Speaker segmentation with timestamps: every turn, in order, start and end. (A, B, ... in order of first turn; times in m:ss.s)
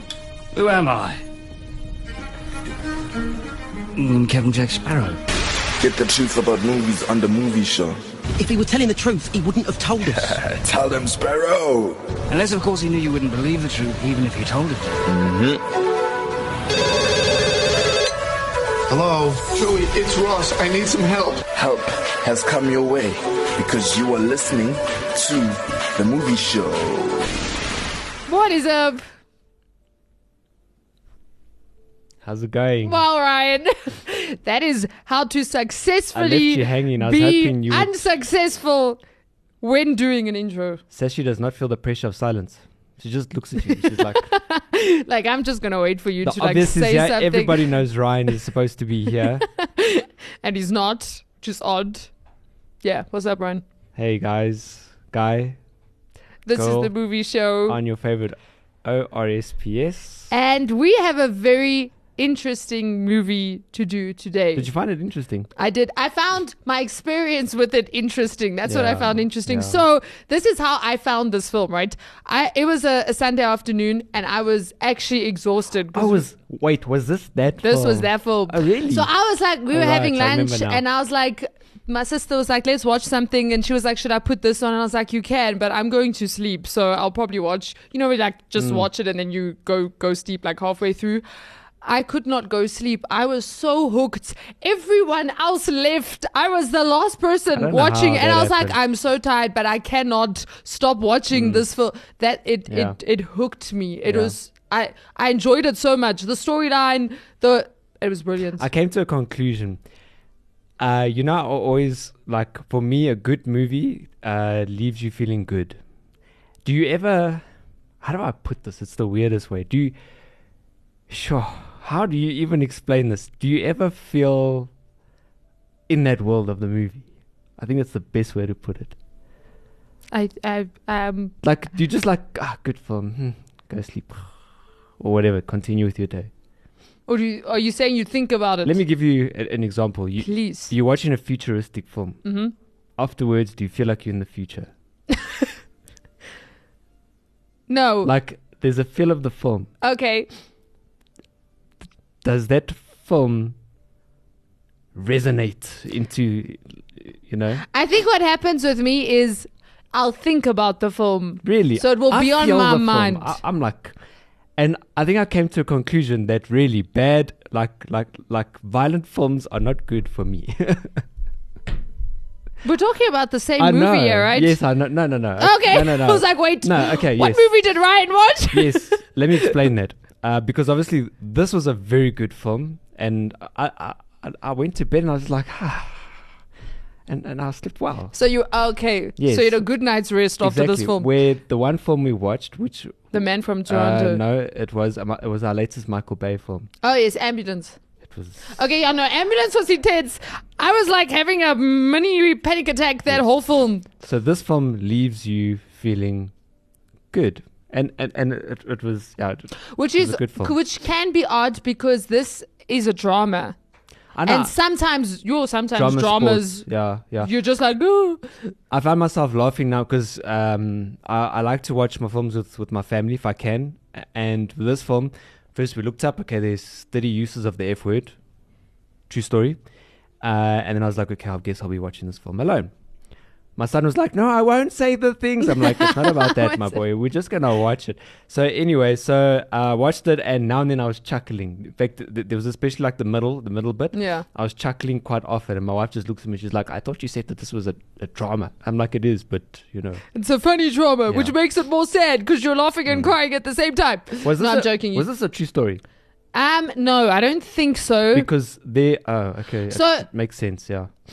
0:00.5-0:01.2 A
0:03.9-0:05.2 A
0:05.8-0:08.0 B
0:08.4-0:10.3 C
0:10.1-0:12.0 B
0:12.3-0:15.0 A
0:15.1-0:15.6 B
0:18.9-0:21.4 D
0:21.5-0:27.2 B
0:28.3-0:29.0 E
0:32.2-0:33.0 F
0:32.8-0:39.0 E
0:36.1-0:38.0 F
0:39.6-0:40.8 E
0:40.9-0:44.3 F
0:43.7-0:47.7 E
0:46.2-0:49.4 F
0:49.2-0:52.1 E
0:52.8-0:53.6 E
0:54.0-0:55.6 F
0:56.4-0:57.8 E
0:56.5-0:56.9 F
0:57.6-1:00.3 F
1:00.3-1:04.7 E
1:04.5-1:05.5 F
1:05.6-1:16.2 E
1:08.6-1:09.8 F
1:15.9-1:19.1 F
1:17.6-1:31.2 E
1:19.7-1:20.8 F
1:28.6-1:28.9 F
1:31.8-1:48.7 E
1:37.5-1:38.8 F
1:41.3-1:41.6 F
1:42.7-1:43.0 F
1:44.0-1:44.3 F
1:48.6-1:49.8 F
1:50.8-1:55.8 F
1:56.6-1:57.4 F
1:58.0-1:59.9 F
2:01.1-2:04.7 F
2:05.9-2:08.9 F
2:10.1-2:11.3 E
2:11.4-2:14.2 F
2:15.0-2:16.3 F
2:17.1-2:18.8 E
2:18.6-2:22.2 F
2:20.2-2:20.7 E
2:22.2-2:22.5 E
2:23.0-2:24.7 F
2:27.7-2:28.1 E
2:28.0-2:29.7 F
2:29.8-2:30.3 E
2:32.2-2:33.6 F
2:34.9-2:37.6 F
2:37.7-2:43.4 E
2:41.4-2:44.0 F
2:44.6-2:51.0 F
2:52.6-2:54.6 E
2:53.6-2:57.4 F
2:55.4-2:59.5 E
2:58.5-3:06.2 F
3:07.1-3:08.1 F
3:08.1-3:11.1 E
3:09.2-3:09.6 F
3:10.4-3:16.7 F
3:13.1-3:14.2 E
3:16.8-3:17.8 E
3:18.0-3:18.5 F
3:18.5-3:23.9 E
3:24.0-3:26.3 F
3:27.1-3:30.5 F
3:29.7-3:33.5 E
3:34.1-3:34.5 F
3:34.2-3:36.6 E
3:35.7-3:37.3 F
3:37.2-3:38.2 E
3:38.7-3:48.1 F
3:49.1-3:49.6 F
3:50.2-3:52.7 F
3:53.6-4:10.0 F
3:55.5-3:56.8 E
4:03.9-4:04.2 E
4:10.1-4:15.1 E
4:14.2-4:15.8 F
4:16.3-4:18.3 E
4:18.1-4:20.9 F
4:19.7-4:20.1 E